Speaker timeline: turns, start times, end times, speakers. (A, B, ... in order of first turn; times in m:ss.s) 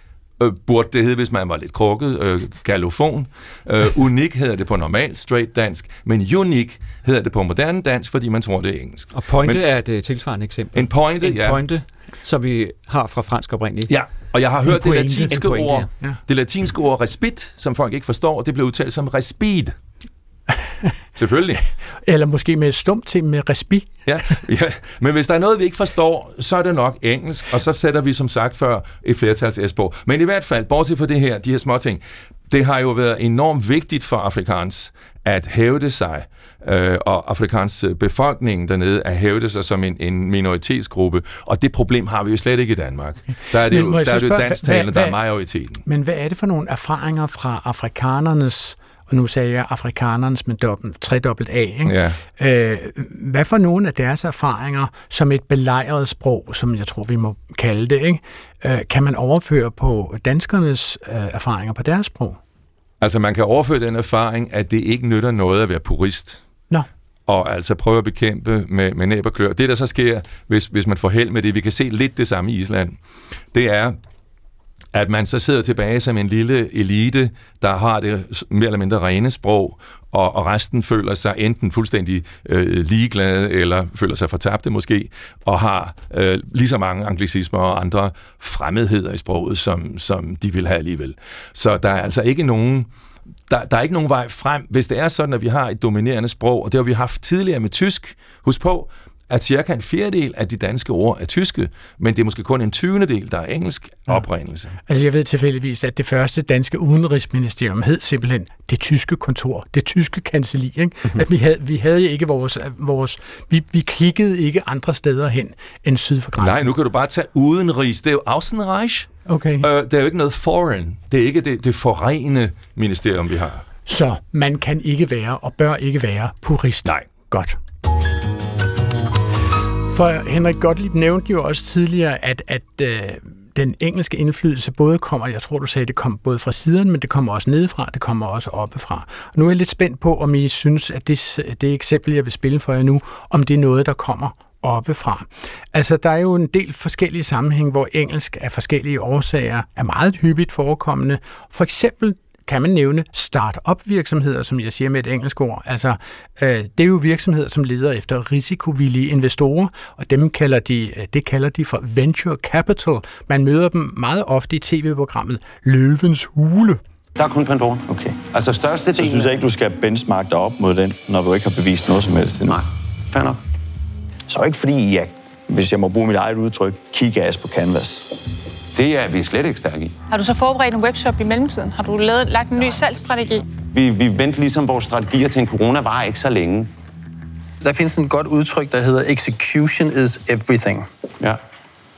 0:00.4-0:09.6 A
0:09.1-0:13.9 B
0:10.7-0:11.6 A
0:13.9-0:19.8 A
0:14.7-0:15.4 C
0:15.3-0:15.9 B
0:21.2-0:21.6 A
0:22.0-0:24.0 C
0:24.1-0:45.8 A
0:43.5-0:45.2 C
0:45.8-1:02.4 C
0:51.9-0:52.2 A
1:03.0-1:06.4 A
1:07.3-1:13.0 A
1:13.5-1:14.0 A
1:14.9-1:32.9 A
1:33.5-1:44.8 A
1:44.9-1:56.7 C
1:56.4-1:59.1 A
1:59.3-1:59.7 C
1:59.6-2:03.6 A
2:03.9-2:07.6 C
2:09.9-2:46.8 C
2:47.2-2:49.5 D
2:47.9-2:48.2 E
2:48.8-2:52.6 E
2:52.4-2:53.4 D
2:54.3-2:58.1 E
2:58.8-3:00.0 D
3:00.1-3:03.4 F
3:03.7-3:06.7 D
3:07.6-3:10.9 G